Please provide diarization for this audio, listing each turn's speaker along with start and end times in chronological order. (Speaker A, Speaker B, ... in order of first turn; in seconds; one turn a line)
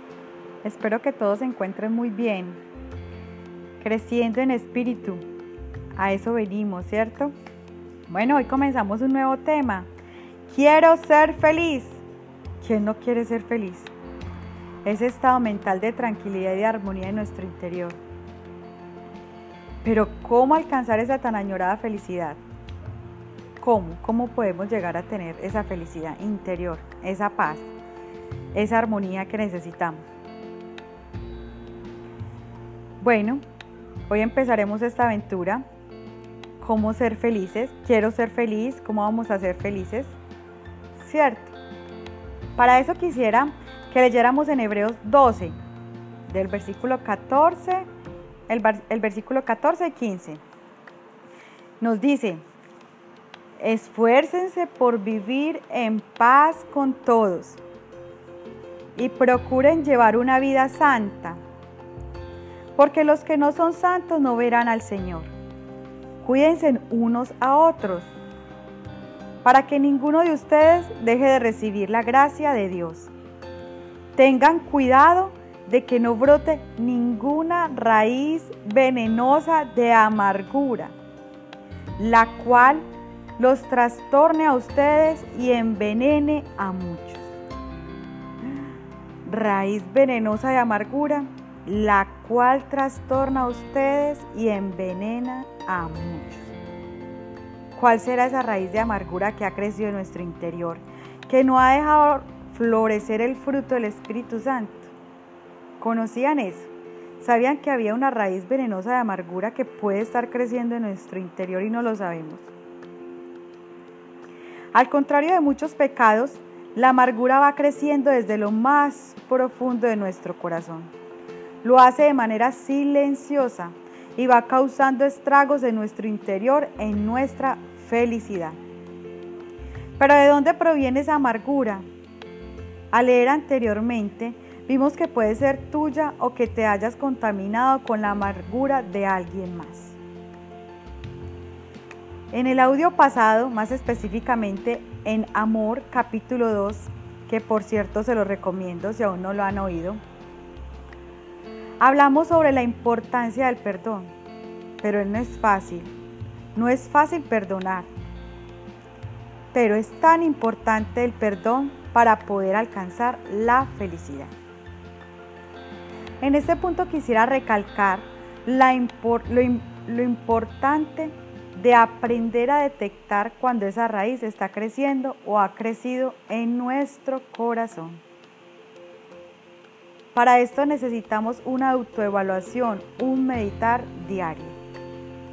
Speaker A: 0.6-2.6
Speaker A: 3.8-5.2
Speaker A: 6.0-7.3
Speaker A: 8.1-9.9
Speaker A: 10.5-12.0
Speaker A: 12.6-13.9
Speaker A: 14.8-18.0
Speaker A: 19.8-22.4
Speaker A: 23.6-27.7
Speaker A: 28.5-30.1
Speaker A: 33.0-33.4
Speaker A: 34.1-35.6
Speaker A: 36.6-40.2
Speaker A: 41.0-41.6
Speaker A: 42.6-45.6
Speaker A: 46.3-47.9
Speaker A: 48.5-50.4
Speaker A: 51.8-52.4
Speaker A: 53.6-57.6
Speaker A: 59.0-61.4
Speaker A: 62.8-65.3
Speaker A: 66.2-68.1
Speaker A: 69.4-73.1
Speaker A: 74.2-81.0
Speaker A: 82.0-82.8
Speaker A: 83.4-87.3
Speaker A: 89.2-96.5
Speaker A: 97.7-104.9
Speaker A: 105.8-112.5
Speaker A: 114.7-120.9
Speaker A: 121.6-128.6
Speaker A: 130.0-131.9
Speaker A: 132.9-140.0
Speaker A: 142.3-150.0
Speaker A: 151.8-154.1
Speaker A: 154.8-155.9
Speaker A: 156.6-157.9
Speaker A: 159.5-164.3
Speaker A: 166.2-178.0
Speaker A: 180.1-184.6